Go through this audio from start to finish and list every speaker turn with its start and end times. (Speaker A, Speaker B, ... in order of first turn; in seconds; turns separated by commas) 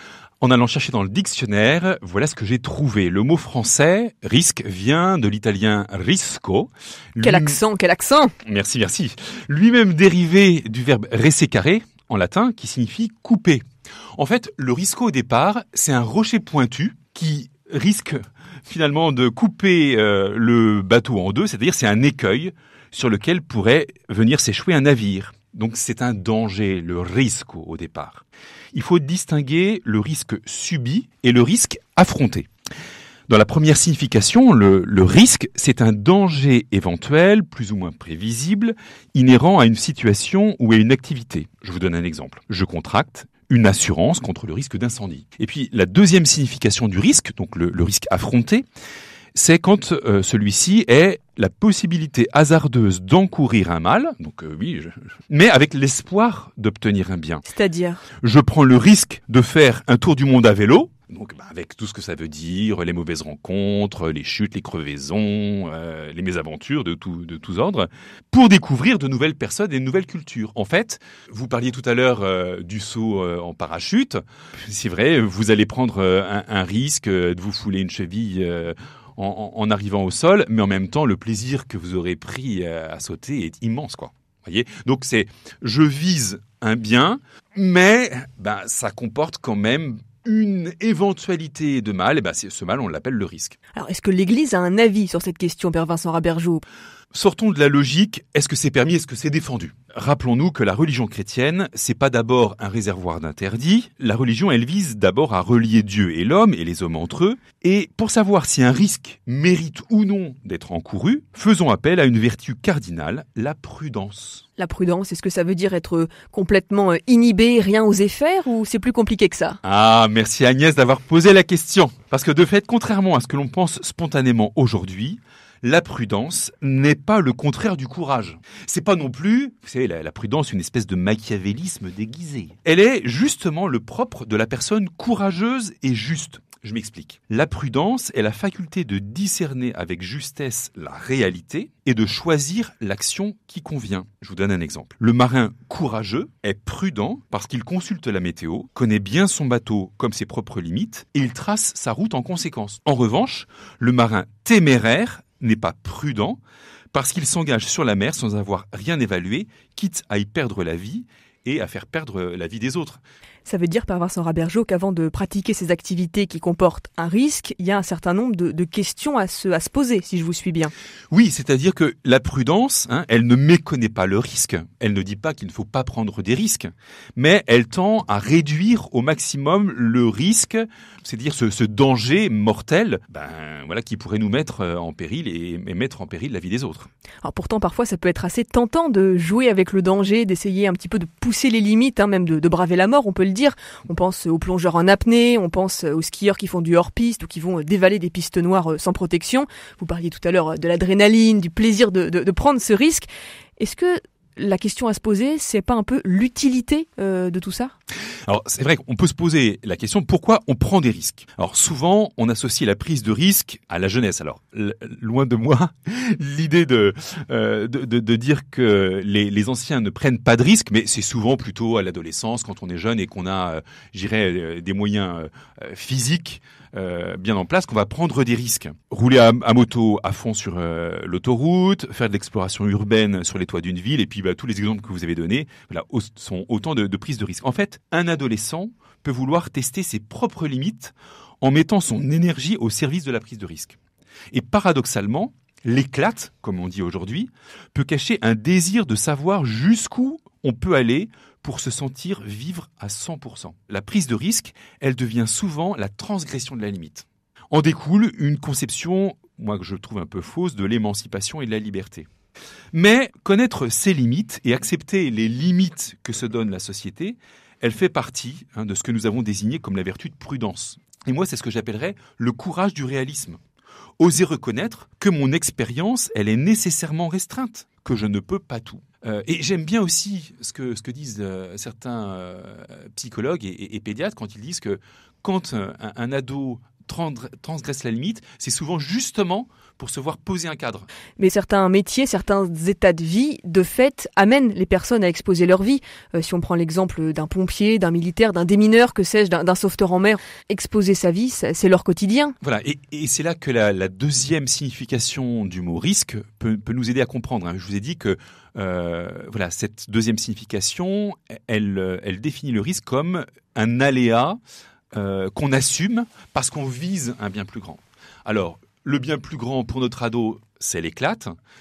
Speaker A: 0.4-7.6, Speaker B: 7.2-8.3, Speaker A: 8.4-13.6, Speaker A: 14.2-32.5, Speaker A: 33.3-48.6, Speaker A: 49.3-57.5, Speaker B: 57.5-58.0, Speaker A: 58.2-93.6, Speaker B: 93.7-96.6, Speaker A: 97.1-114.5, Speaker B: 114.6-119.6, Speaker A: 119.6-156.4, Speaker A: 156.9-163.0, Speaker B: 163.4-170.7, Speaker A: 171.1-186.9, Speaker B: 187.2-203.1, Speaker B: 203.6-207.8, Speaker A: 208.3-243.8, Speaker A: 244.3-262.1, Speaker A: 262.7-273.4, Speaker A: 274.0-290.9, Speaker B: 291.2-302.4, Speaker A: 302.4-314.4, Speaker A: 314.9-321.4